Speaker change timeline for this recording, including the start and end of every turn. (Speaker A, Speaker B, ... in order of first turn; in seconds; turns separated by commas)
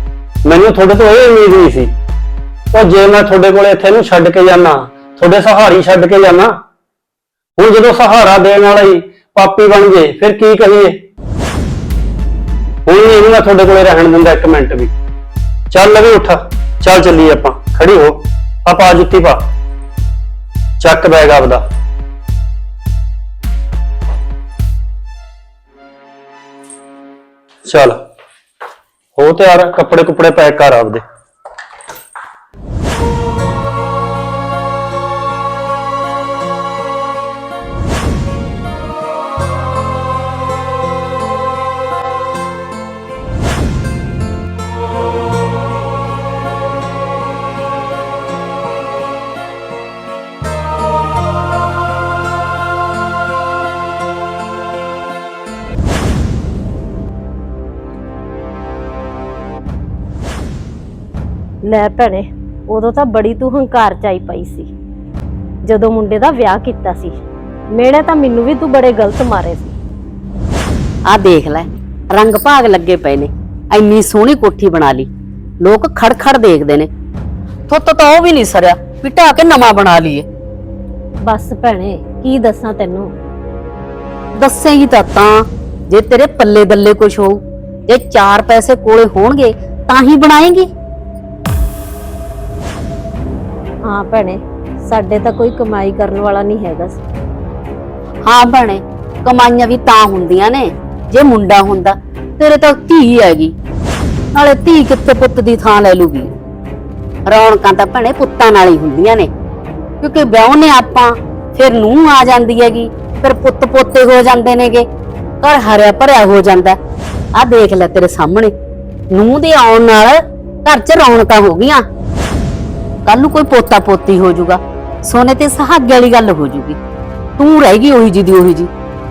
Speaker A: 0.4-1.9, Speaker A: 2.7-6.5, Speaker A: 7.6-11.0, Speaker A: 12.9-14.9, Speaker A: 15.7-19.5, Speaker A: 20.8-21.6, Speaker A: 27.6-28.0, Speaker A: 29.2-31.0, Speaker B: 61.6-64.7, Speaker B: 65.7-67.2, Speaker B: 67.7-69.8, Speaker C: 71.1-75.1, Speaker C: 75.6-76.9, Speaker C: 77.7-80.3, Speaker B: 81.2-83.1, Speaker C: 84.4-90.7, Speaker B: 93.8-97.0, Speaker C: 98.2-103.5, Speaker C: 104.3-106.3, Speaker C: 107.3-109.3, Speaker C: 110.0-114.9, Speaker C: 115.4-116.8, Speaker C: 117.3-118.5, Speaker C: 119.1-121.9, Speaker C: 123.1-126.8, Speaker C: 127.4-128.7